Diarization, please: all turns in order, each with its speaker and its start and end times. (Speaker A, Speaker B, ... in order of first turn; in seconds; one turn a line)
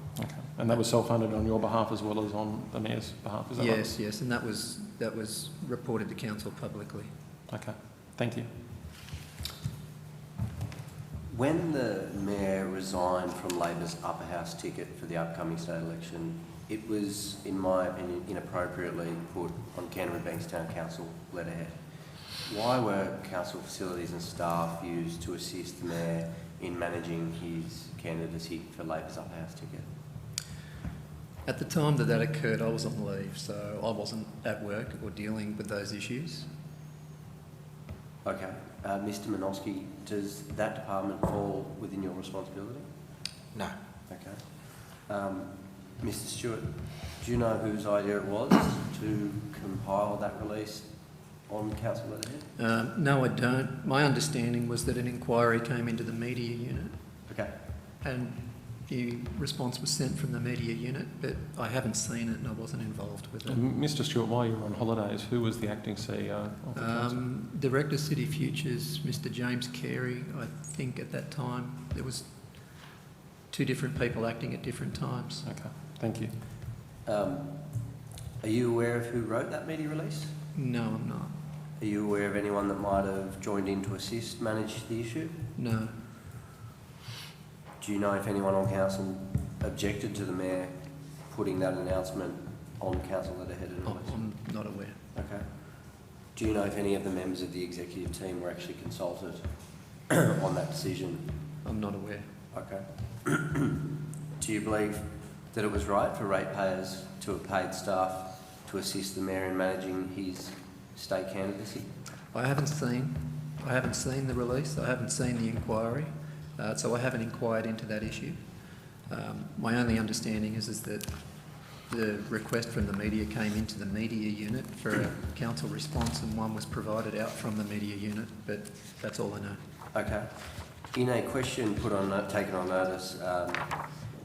Speaker A: 0.2-3.8
Speaker B: 3.6-7.1
Speaker A: 7.5-8.5
Speaker C: 11.3-21.7
Speaker C: 22.5-29.9
Speaker B: 31.5-36.5
Speaker C: 38.2-42.9
Speaker C: 44.1-44.4
Speaker C: 45.1-50.9
Speaker C: 51.5-52.5
Speaker B: 52.6-56.9
Speaker B: 58.0-63.6
Speaker A: 63.5-67.1
Speaker B: 66.8-72.3
Speaker B: 73.5-75.5
Speaker A: 75.5-76.3
Speaker C: 77.1-77.5
Speaker C: 78.4-80.3
Speaker B: 80.5-81.3
Speaker C: 81.8-85.3
Speaker B: 85.6-85.9
Speaker C: 87.8-90.7
Speaker C: 91.3-94.1
Speaker B: 93.8-95.0
Speaker C: 95.2-95.5
Speaker C: 96.3-99.4
Speaker C: 100.1-101.3
Speaker B: 101.6-102.3
Speaker C: 102.5-103.8
Speaker C: 104.4-111.9
Speaker B: 112.3-118.4
Speaker B: 119.1-121.1
Speaker B: 121.9-129.6
Speaker C: 129.9-130.3
Speaker C: 130.9-133.7